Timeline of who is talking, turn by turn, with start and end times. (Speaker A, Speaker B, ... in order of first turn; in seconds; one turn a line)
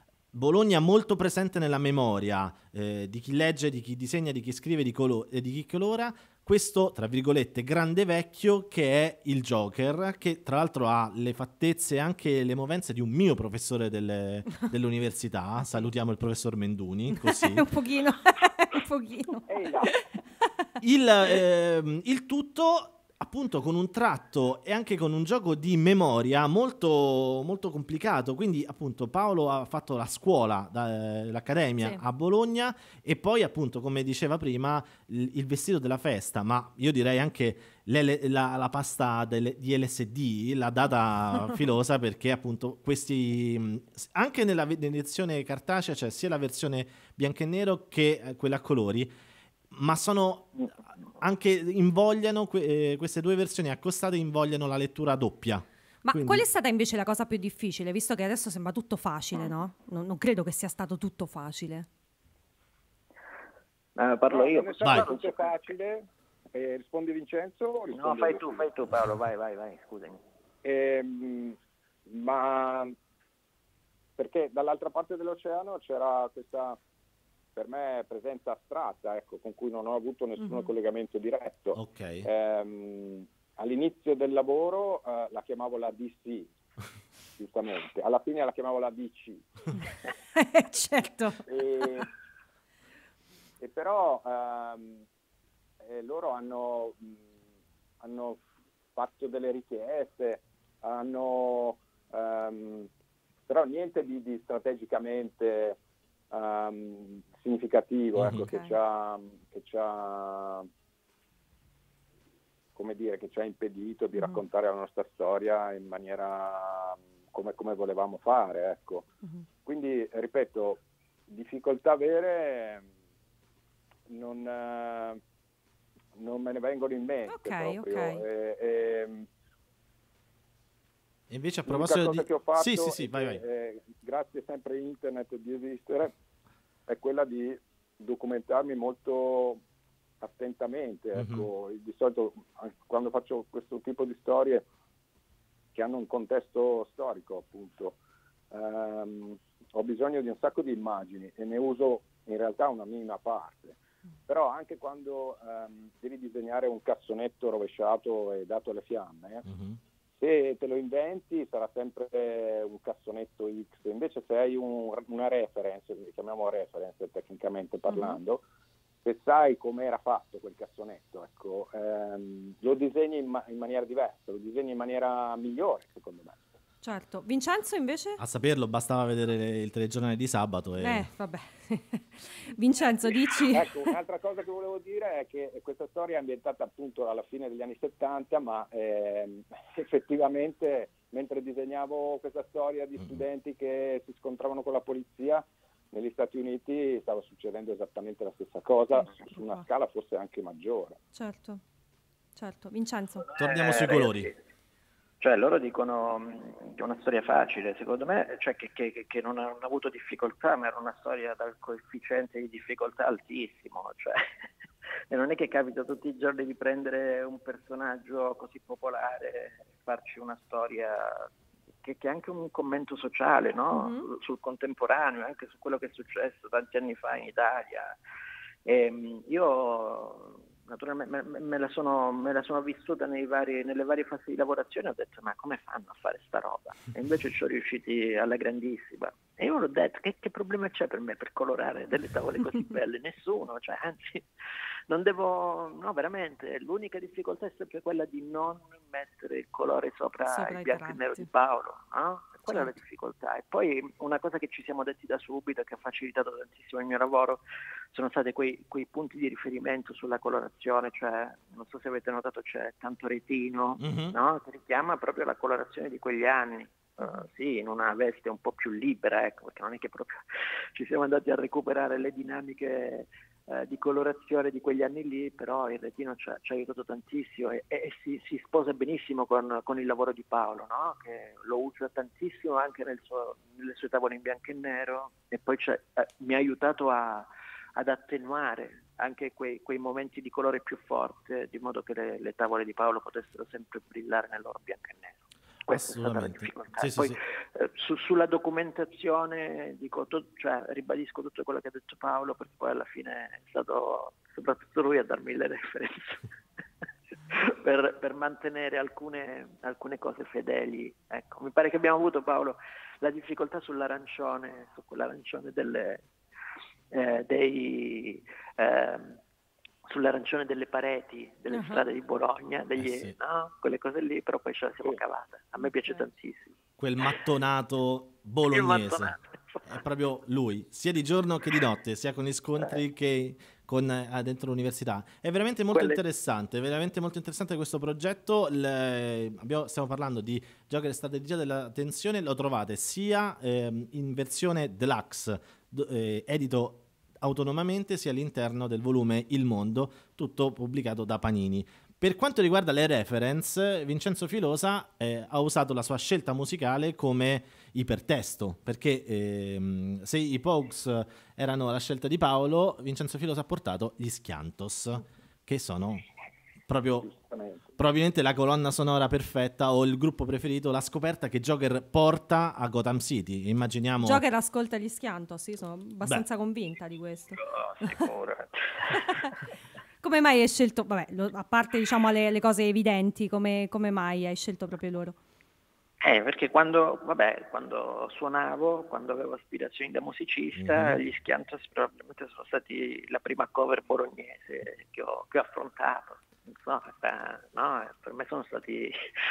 Speaker A: 0.3-17.6
Speaker B: 17.1-20.6
Speaker C: 19.5-19.9
Speaker A: 20.8-49.1
Speaker A: 49.7-56.4
Speaker B: 56.0-61.9
Speaker D: 64.0-65.7
Speaker C: 64.3-68.7
Speaker D: 67.9-70.2
Speaker C: 70.6-71.5
Speaker C: 72.1-72.9
Speaker C: 74.2-76.8
Speaker C: 77.5-86.5
Speaker B: 80.4-80.7
Speaker A: 81.7-82.3
Speaker C: 87.4-89.5
Speaker B: 90.3-92.1
Speaker C: 91.5-92.1
Speaker C: 93.6-95.0
Speaker C: 95.8-97.2
Speaker C: 98.0-98.4
Speaker C: 98.9-102.9
Speaker C: 103.5-105.8
Speaker C: 106.3-110.7
Speaker A: 108.2-108.4
Speaker B: 108.4-108.7
Speaker C: 112.7-119.1
Speaker B: 114.2-114.4
Speaker C: 119.6-122.8
Speaker C: 124.1-125.2
Speaker C: 126.1-129.3
Speaker B: 127.3-128.2
Speaker A: 131.3-133.4
Speaker C: 131.7-136.1
Speaker C: 136.9-139.6
Speaker C: 140.2-144.6
Speaker A: 141.1-141.5
Speaker C: 145.7-148.0
Speaker C: 148.5-159.4
Speaker A: 159.4-159.8
Speaker C: 160.1-168.4
Speaker B: 167.9-168.2
Speaker C: 169.0-176.4
Speaker B: 176.8-178.2
Speaker A: 178.2-181.1
Speaker B: 180.8-183.8
Speaker C: 183.5-201.0
Speaker B: 198.9-199.7
Speaker B: 201.1-201.6
Speaker B: 202.3-203.3
Speaker A: 203.4-204.3
Speaker D: 203.4-204.4
Speaker D: 205.2-214.2
Speaker D: 215.1-221.3
Speaker D: 221.8-227.9
Speaker B: 223.7-224.1
Speaker D: 228.7-244.2
Speaker D: 244.9-257.4
Speaker B: 250.2-251.3
Speaker B: 252.5-252.7
Speaker D: 257.9-270.2
Speaker A: 263.8-264.1
Speaker B: 267.0-267.3
Speaker D: 270.7-306.2
Speaker A: 295.7-297.2
Speaker D: 307.2-316.0
Speaker D: 316.9-319.2
Speaker D: 319.9-326.5
Speaker B: 321.5-321.9
Speaker A: 322.8-323.1
Speaker A: 326.8-329.1
Speaker D: 328.5-329.6
Speaker A: 329.6-366.0
Speaker D: 335.7-336.0
Speaker A: 366.7-367.1
Speaker C: 367.0-367.7
Speaker A: 367.8-374.2
Speaker B: 374.0-378.1
Speaker D: 377.4-379.2
Speaker B: 380.0-385.2
Speaker D: 386.0-398.9
Speaker A: 390.6-391.0